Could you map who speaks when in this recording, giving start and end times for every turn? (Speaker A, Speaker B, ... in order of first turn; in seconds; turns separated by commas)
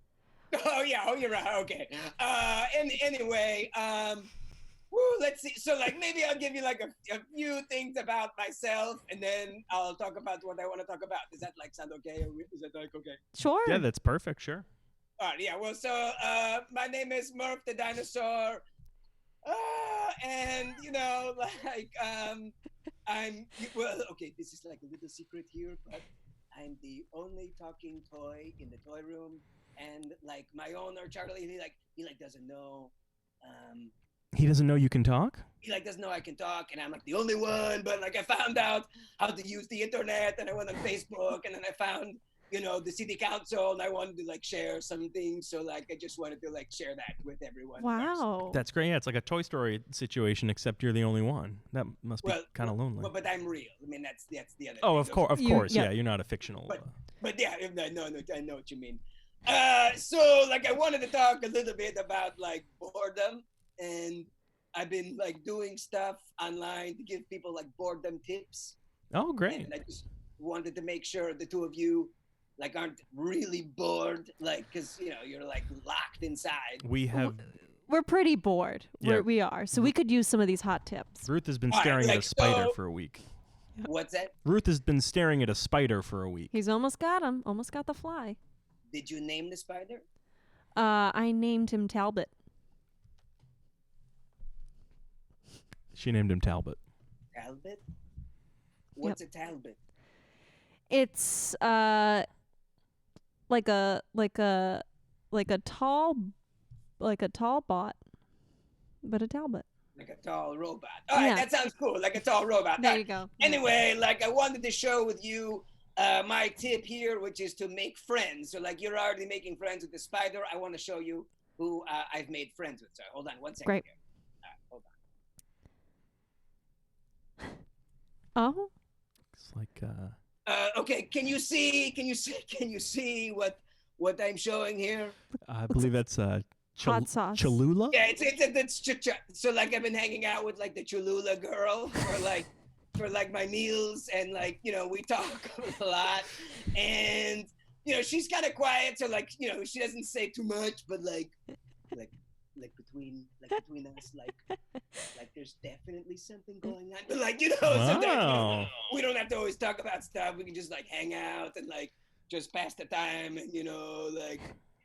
Speaker A: 0.5-4.3, Speaker A: 4.9-13.2, Speaker B: 13.3-13.8, Speaker C: 13.7-14.7, Speaker A: 15.2-18.6, Speaker A: 19.4-22.6, Speaker A: 23.1-33.9, Speaker C: 34.3-35.5, Speaker A: 35.6-48.2, Speaker B: 47.8-48.6, Speaker C: 48.5-53.1, Speaker A: 52.2-55.9, Speaker C: 54.8-56.9, Speaker B: 55.4-55.9, Speaker A: 56.7-68.8, Speaker C: 69.1-69.7, Speaker A: 69.5-76.8, Speaker C: 76.8-77.5, Speaker B: 77.9-81.3, Speaker C: 79.0-79.9, Speaker C: 81.2-83.2, Speaker A: 81.7-82.8, Speaker A: 83.8-84.3, Speaker C: 84.5-86.5, Speaker B: 86.5-88.4, Speaker A: 88.9-90.0, Speaker B: 90.8-92.3, Speaker C: 95.9-96.8, Speaker A: 97.3-97.8, Speaker A: 99.0-99.8, Speaker B: 100.9-102.3, Speaker B: 103.5-106.3, Speaker B: 107.0-108.0, Speaker B: 109.0-109.7, Speaker A: 110.0-124.0, Speaker B: 111.1-111.5, Speaker B: 112.8-113.6, Speaker A: 124.5-124.9, Speaker B: 128.4-128.7, Speaker C: 129.3-130.2, Speaker A: 130.5-135.2, Speaker C: 135.5-138.0, Speaker B: 136.8-137.6, Speaker A: 137.9-151.3, Speaker A: 151.9-154.4, Speaker A: 155.1-164.5, Speaker C: 157.6-158.7